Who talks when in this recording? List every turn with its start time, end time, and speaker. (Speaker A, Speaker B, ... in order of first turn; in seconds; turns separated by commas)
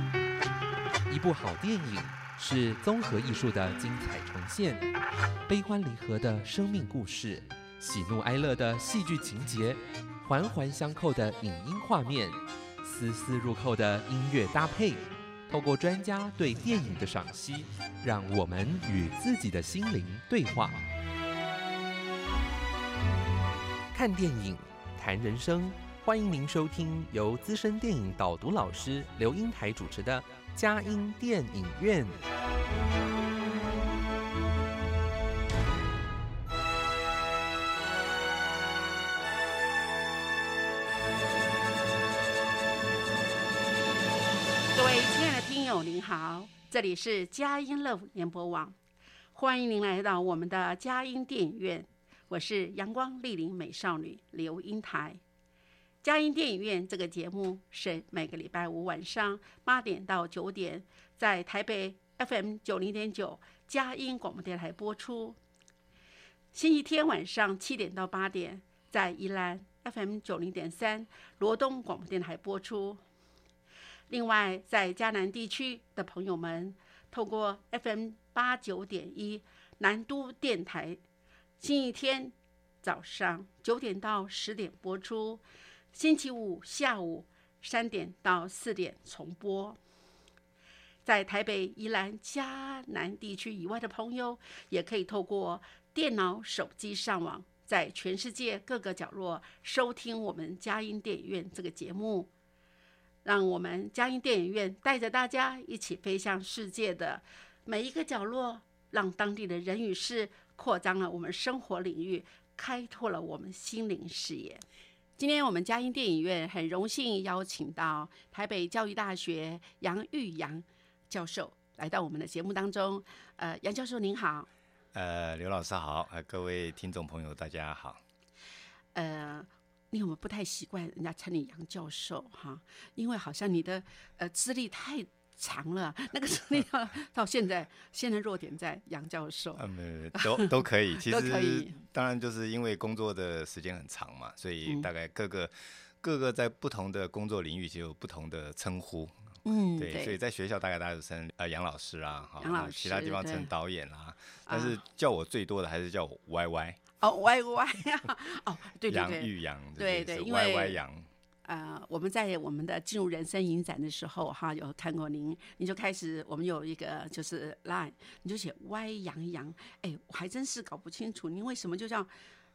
Speaker A: 1.1-4.9, Speaker A: 5.5-20.9, Speaker A: 23.9-32.2, Speaker B: 44.8-48.8, Speaker B: 49.3-55.2, Speaker B: 56.0-65.4, Speaker B: 66.5-73.0, Speaker B: 74.1-81.0, Speaker B: 81.6-85.4, Speaker B: 85.9-89.8, Speaker B: 91.0-102.3, Speaker B: 103.2-114.6, Speaker B: 115.2-124.5, Speaker C: 124.9-128.0, Speaker B: 128.9-139.6, Speaker C: 139.6-149.3, Speaker B: 140.2-141.8, Speaker B: 149.4-150.2, Speaker C: 149.8-156.9, Speaker B: 152.4-153.5, Speaker B: 154.5-154.8, Speaker B: 157.0-160.8, Speaker C: 158.9-161.1, Speaker B: 161.4-172.1